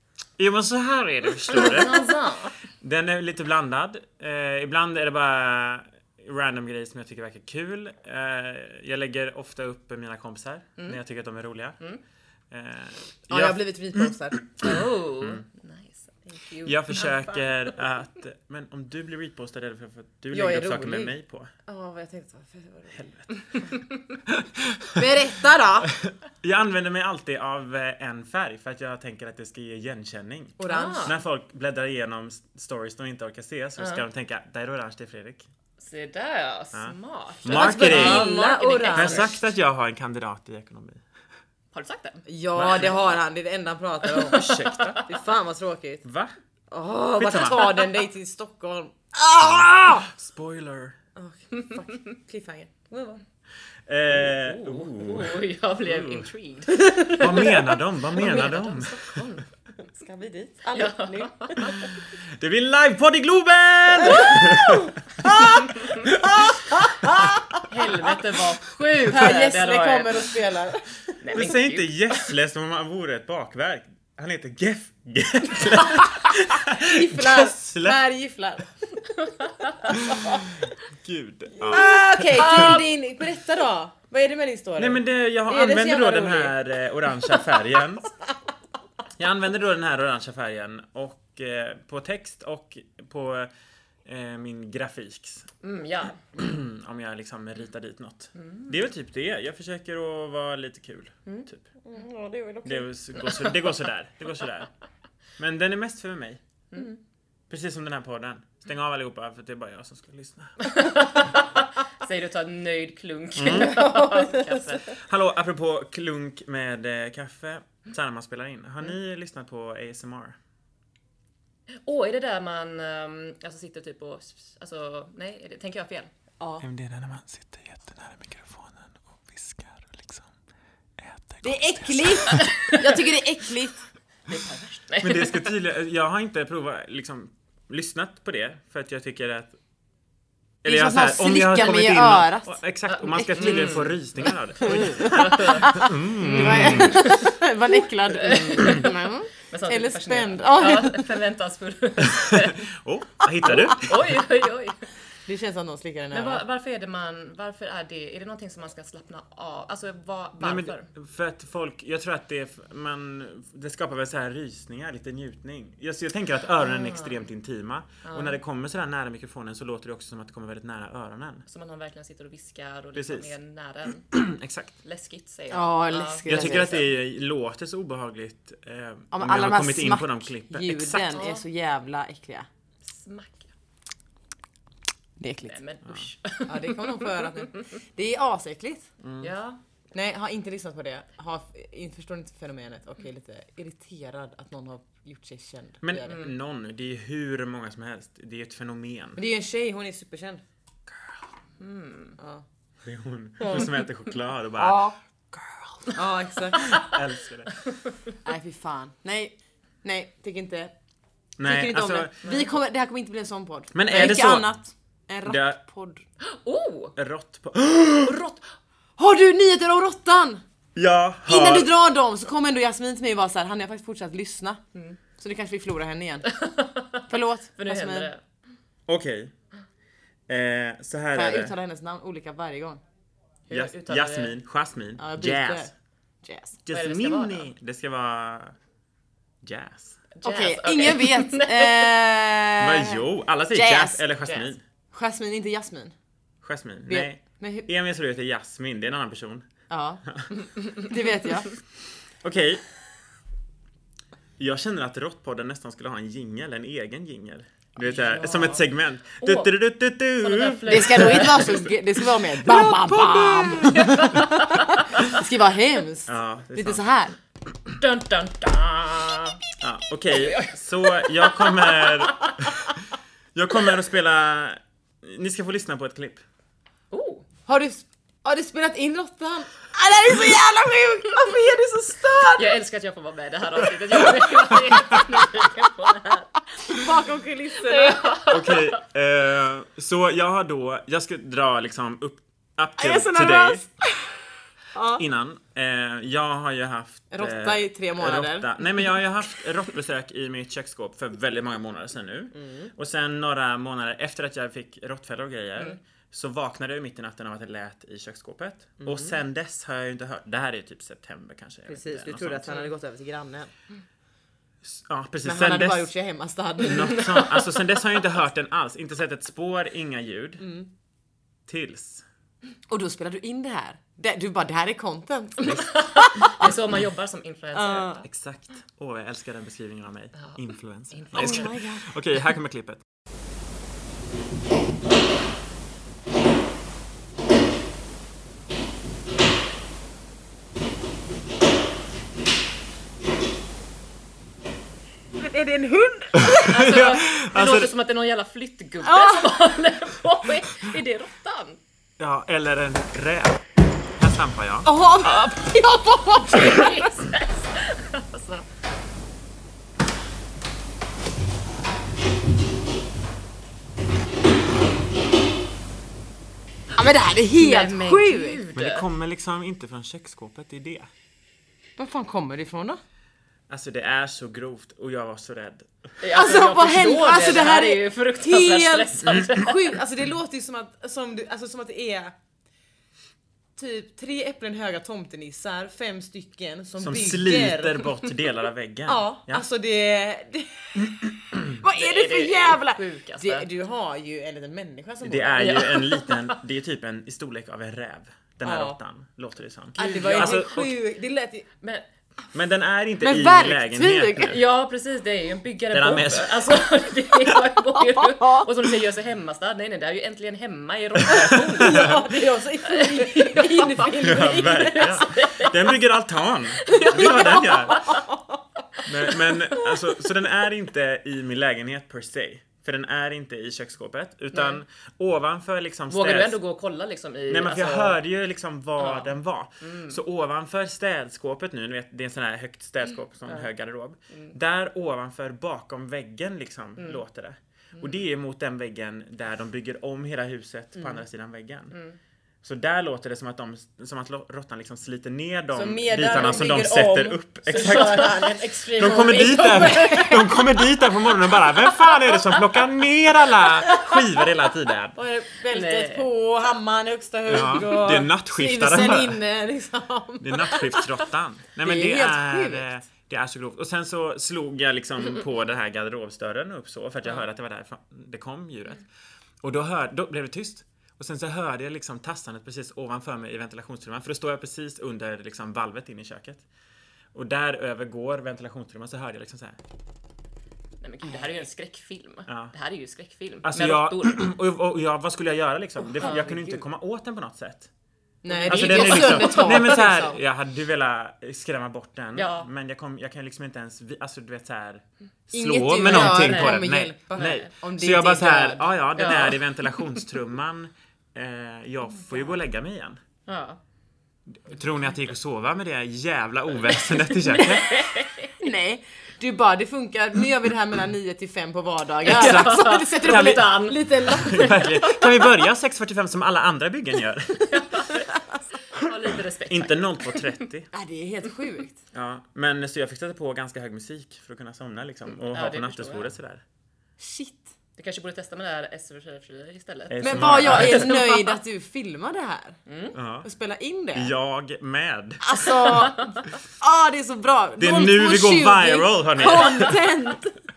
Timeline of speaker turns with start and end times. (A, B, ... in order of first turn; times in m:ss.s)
0:00.4-0:02.1 A
0:01.5-0:02.6 B
0:02.8-0:11.8 A
0:12.5-0:15.4 A
0:13.3-0:14.4 C
0:14.6-0:17.2 B
0:16.6-0:21.5 A
0:20.3-0:21.1 C
0:21.7-0:23.0 C
0:22.9-0:23.3 A
0:23.7-0:24.2 B
0:24.3-0:25.1 A
0:25.0-0:25.9 C
0:25.8-0:35.5 A
0:30.6-0:31.2 C
0:30.7-0:31.2 B
0:33.8-0:34.0 B
0:35.8-0:39.3 B
0:36.7-0:38.3 A
0:37.5-0:39.4 C
0:38.9-0:41.0 A
0:41.7-0:42.2 B
0:42.3-0:46.0 C
0:42.6-0:43.0 A
0:44.2-0:45.1 A
0:44.2-0:45.1 B
0:46.0-0:46.3 A
0:46.7-0:50.1 C
0:47.2-0:47.9 A
0:49.4-0:51.0 A
0:51.2-0:53.2 C
0:53.9-0:56.3 A
0:54.2-0:59.5 B
0:57.0-0:59.2 A
0:59.9-1:01.8 C
1:00.7-1:01.9 B
1:01.8-1:07.1 A
1:04.0-1:05.6 C
1:05.3-1:06.1 B
1:06.2-1:07.6 C
1:07.7-1:10.2 B
1:09.0-1:11.5 C
1:11.2-1:12.1 B
1:11.3-1:18.0 A
1:15.6-1:16.0 B
1:16.6-1:18.7 C
1:19.1-1:19.9 B
1:19.8-1:20.4 C
1:19.9-1:22.8 A
1:21.6-1:26.6 C
1:22.4-1:22.9 B
1:24.8-1:28.1 A
1:27.1-1:27.7 C
1:29.2-1:33.5 A
1:34.0-1:35.5 A
1:35.6-1:36.2 B
1:36.3-1:41.6 A
1:38.4-1:38.8 B
1:41.8-1:43.6 C
1:42.6-1:44.7 A
1:45.4-1:46.4 A
1:47.5-1:50.6 A
1:50.6-1:54.9 B
1:53.4-1:53.8 A
1:53.5-1:54.8 C
1:54.9-2:00.4 A
2:01.8-2:06.1 B
2:06.4-2:06.6 C
2:06.6-2:10.3 A
2:11.0-2:12.6 A
2:11.4-2:13.8 C
2:12.3-2:13.1 B
2:14.3-2:15.4 B
2:15.0-2:19.6 A
2:20.6-2:27.1 A
2:20.6-2:23.6 C
2:22.9-2:24.0 B
2:24.6-2:31.1 C
2:24.7-2:27.3 B
2:28.1-2:28.9 B
2:29.5-2:32.7 B
2:32.0-2:34.2 A
2:33.5-2:34.8 B
2:33.5-2:33.7 C
2:35.3-2:36.4 C
2:36.1-2:40.9 B
2:40.4-2:51.4 A
2:46.6-2:47.2 B
2:48.0-2:48.4 B
2:51.5-2:54.1 B
2:53.0-2:53.3 A
2:54.1-2:54.8 A
2:54.8-2:56.8 B
2:55.5-2:56.8 C
2:56.3-3:01.2 A
2:59.1-3:02.5 C
3:01.1-3:01.4 B
3:02.8-3:03.5 B
3:05.2-3:05.6 C
3:05.5-3:07.7 B
3:06.5-3:08.9 C
3:09.0-3:09.3 A
3:09.2-3:09.6 B
3:09.9-3:16.3 C
3:15.8-3:19.2 A
3:19.2-3:20.4 C
3:20.9-3:21.2 A
3:21.6-3:22.2 B
3:22.2-3:22.4 C
3:22.8-3:25.9 A
3:23.4-3:23.7 C
3:24.6-3:25.0 C
3:25.9-3:26.8 C
3:26.5-3:27.0 B
3:26.6-3:27.6 A
3:27.7-3:28.1 B
3:28.2-3:30.7 C
3:31.4-3:32.2 A
3:31.4-3:36.0 C
3:33.7-3:34.5 A
3:35.2-3:35.6 A
3:36.2-3:37.0 B
3:37.0-3:38.2 A
3:38.1-3:38.4 B
3:39.0-3:40.4 C
3:40.8-3:41.7 A
3:41.3-3:44.6 C
3:45.2-3:46.3 C
3:46.3-3:48.2 B
3:47.1-3:48.1 C
3:48.9-3:49.3 A
3:50.3-3:51.5 A
3:51.1-3:52.8 C
3:53.5-3:54.4 B
3:53.5-3:55.7 A
3:55.0-3:55.7 C
3:56.2-3:56.6 C
3:56.7-3:58.5 A
3:56.7-3:57.5 B
3:59.4-4:00.0 A
4:00.2-4:02.0 B
4:00.2-4:04.0 C
4:02.6-4:04.6 A
4:04.2-4:04.5 B
4:04.9-4:06.0 C
4:06.4-4:09.5 A
4:06.9-4:07.7 C
4:09.7-4:10.0 C
4:10.1-4:10.3 A
4:10.6-4:10.9 B
4:10.9-4:11.5 C
4:12.2-4:12.7 A
4:14.4-4:21.7 A
4:17.8-4:18.6 B
4:19.2-4:19.5 B
4:20.2-4:21.7 B
4:20.7-4:27.2 C
4:22.2-4:24.0 A
4:23.7-4:25.1 B
4:26.1-4:26.8 A
4:27.8-4:29.4 B
4:29.6-4:32.8 A
4:30.1-4:32.4 B
4:33.3-4:36.2 A
4:36.9-4:37.2 B
4:37.5-4:42.6 C
4:42.4-4:46.3 B
4:46.6-4:48.2 C
4:47.6-4:48.7 B
4:48.3-4:53.6 A
4:52.8-4:55.0 C
4:55.0-5:12.7 A
4:57.1-4:59.4 C
5:02.3-5:02.7 C
5:08.8-5:09.2 C
5:11.7-5:13.5 C
5:14.6-5:15.9 A
5:15.2-5:17.2 C
5:16.6-5:20.5 A
5:20.4-5:20.7 C
5:21.5-5:22.0 A
5:22.7-5:26.6 C
5:25.4-5:28.0 B
5:27.6-5:28.0 C
5:28.1-5:32.8 A
5:30.9-5:31.5 B
5:31.1-5:32.3 C
5:45.1-5:46.7 C
5:46.2-5:47.7 A
5:46.5-5:51.6 B
5:48.8-5:49.4 C
5:52.0-5:53.4 A
5:54.0-5:54.7 A
5:54.6-5:56.9 C
5:56.2-5:58.4 B
6:06.7-6:08.4 C
6:07.4-6:08.9 B
6:08.6-6:10.9 A
6:11.8-6:12.8 C
6:13.5-6:15.7 A
6:16.0-6:19.8 B
6:16.1-6:22.2 C
6:23.6-6:27.9 C
6:26.8-6:29.4 A
6:28.9-6:35.7 C
6:30.8-6:31.6 A
6:31.7-6:33.5 B
6:35.0-6:40.7 A
6:35.4-6:36.4 B
6:38.4-6:38.8 C
6:39.8-6:41.5 C
6:39.8-6:40.6 B
6:42.3-6:44.4 A
6:43.0-6:44.4 C
6:44.2-6:52.0 B
6:45.7-6:46.6 A
6:47.8-6:48.5 C
6:51.1-6:52.0 A
6:51.1-6:55.1 C
6:52.6-6:55.5 B
6:54.0-6:57.9 A
6:56.6-6:58.0 B
6:56.7-6:58.4 C
6:58.8-7:06.4 A
7:04.3-7:04.6 B
7:05.9-7:08.0 B
7:07.3-7:21.8 A
7:08.8-7:10.0 B
7:21.7-7:22.0 B
7:22.4-7:35.0 A
7:25.5-7:30.9 C
7:27.6-7:28.2 B
7:33.6-7:34.0 C
7:35.0-7:40.9 C
7:35.5-7:36.1 B
7:37.3-7:39.2 A
7:40.2-7:48.9 A
7:41.6-7:42.8 C
7:49.4-7:56.4 A
7:57.1-7:59.6 A
8:00.8-8:04.2 B
8:02.3-8:02.5 A
8:03.4-8:07.7 A
8:06.0-8:06.6 C
8:06.0-8:06.3 B
8:08.2-8:10.2 C
8:08.3-8:09.4 B
8:08.4-8:23.0 A
8:12.2-8:12.5 B
8:15.3-8:18.7 C
8:15.8-8:16.6 B
8:17.2-8:17.5 B
8:19.0-8:19.4 B
8:23.3-8:23.6 B
8:24.3-8:27.8 A
8:27.3-8:27.6 C
8:27.4-8:28.3 B
8:28.4-8:34.7 C
8:32.0-8:34.7 B
8:32.1-8:37.9 A
8:37.5-8:40.4 B
8:38.8-8:40.7 A
8:40.7-8:41.8 C
8:41.9-8:46.4 A
8:45.3-8:46.1 B
8:47.0-8:47.5 C
8:47.8-8:51.4 B
8:49.9-8:50.9 A
8:50.0-8:52.6 C
8:52.7-8:53.0 B
8:53.0-8:53.3 A
8:53.2-8:54.1 C
8:53.9-8:55.6 A
8:55.2-9:00.4 C
8:55.5-8:56.3 B
8:57.6-9:00.1 A